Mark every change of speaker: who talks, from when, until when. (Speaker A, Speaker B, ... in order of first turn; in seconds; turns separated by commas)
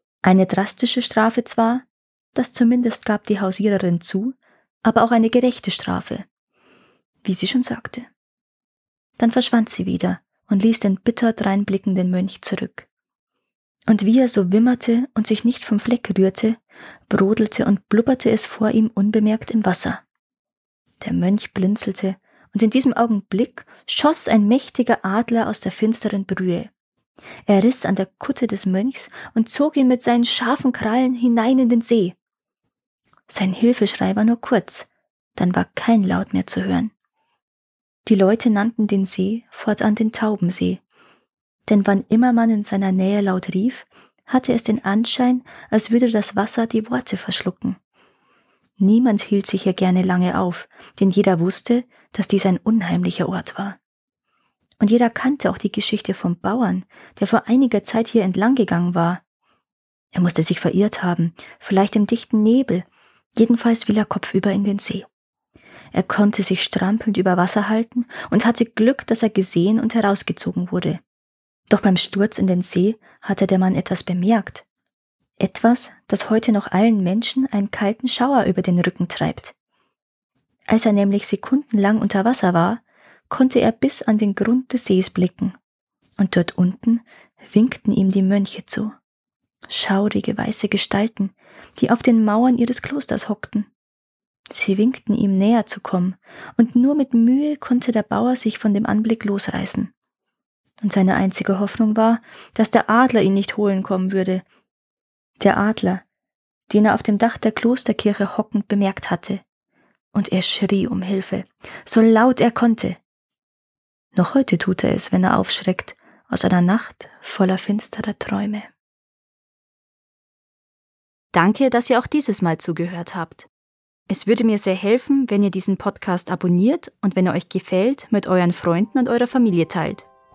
Speaker A: 0.2-6.2, Speaker A: 7.2-8.1, Speaker A: 9.2-12.9, Speaker A: 13.9-16.6, Speaker A: 17.1-20.0, Speaker A: 21.0-26.7, Speaker A: 27.5-32.1, Speaker A: 33.3-36.9, Speaker A: 38.0-40.8, Speaker A: 41.7-47.8, Speaker A: 48.8-53.8, Speaker A: 54.8-59.2, Speaker A: 60.1-65.0, Speaker A: 65.9-71.0, Speaker A: 71.7-74.6, Speaker A: 75.4-79.5, Speaker A: 80.7-85.5, Speaker A: 86.2-88.9, Speaker A: 89.7-93.7, Speaker A: 94.5-99.9, Speaker A: 100.8-104.4, Speaker A: 105.4-106.0, Speaker A: 106.7-109.4, Speaker A: 110.1-113.0, Speaker A: 114.1-118.7, Speaker A: 121.3-123.5, Speaker A: 124.1-130.1